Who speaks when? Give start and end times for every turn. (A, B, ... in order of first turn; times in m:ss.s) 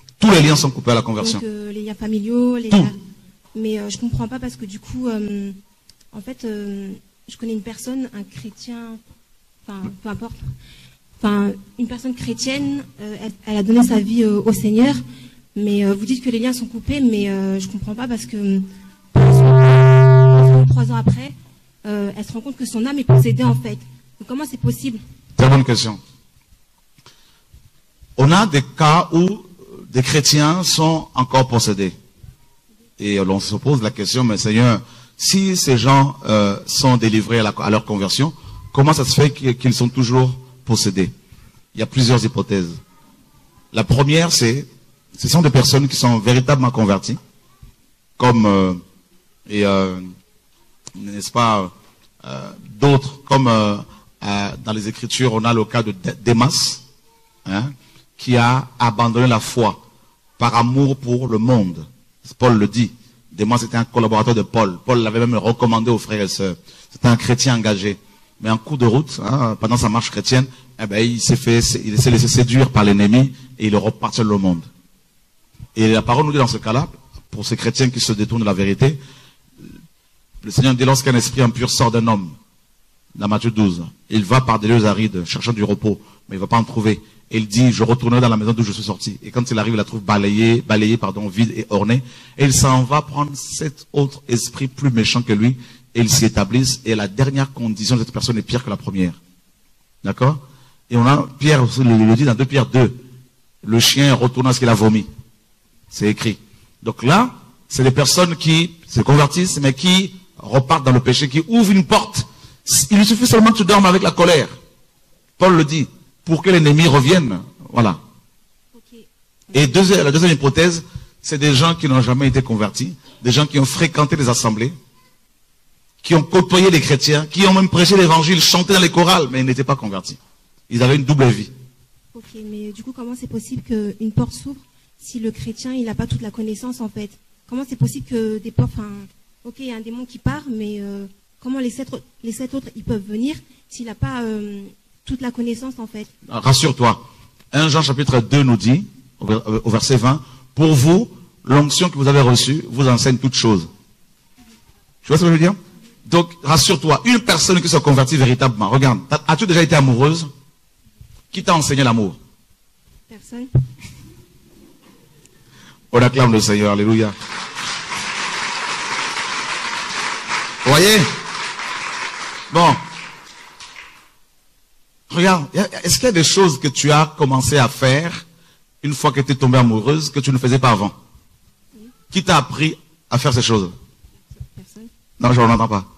0:00.2-0:01.4 A
0:01.2-0:02.9 B
0:03.5-0:05.6 B
0:06.1-0:09.0 B
0:09.6-0:10.4 B
0:11.2-0:15.0 B
0:15.5-0:21.3 B
0:21.8-0:25.0 B
0:25.4-0:26.0 A
0:28.2-0:31.9 A
0:33.0-0:41.1 A
0:41.7-0:42.8 A
0:43.7-0:44.7 A
0:45.2-0:47.2 A
0:48.2-0:48.8 A
0:49.4-0:50.1 A
0:50.9-0:51.7 A
0:52.2-0:56.8 A
0:57.4-0:59.8 A
1:00.4-1:14.7 A
1:15.8-1:19.0 A
1:20.4-1:22.3 A
1:23.1-1:39.2 A
1:40.0-1:43.0 A
1:43.6-1:45.1 A
1:45.9-1:54.5 A
1:55.4-1:58.0 A
1:58.7-1:59.1 B
1:59.5-2:04.7 A
2:06.0-2:10.2 A
2:10.7-2:11.5 A
2:12.1-2:26.1 B
2:26.2-2:33.7 A
2:35.0-2:40.3 A
2:41.3-2:42.2 A
2:43.1-2:43.6 B
2:45.9-2:47.1 A
2:50.6-2:51.1 A
2:52.5-2:52.8 A
2:55.1-2:58.2 A
2:58.8-3:00.9 A
3:02.1-3:03.7 A
3:04.4-3:04.9 B
3:05.2-3:05.8 A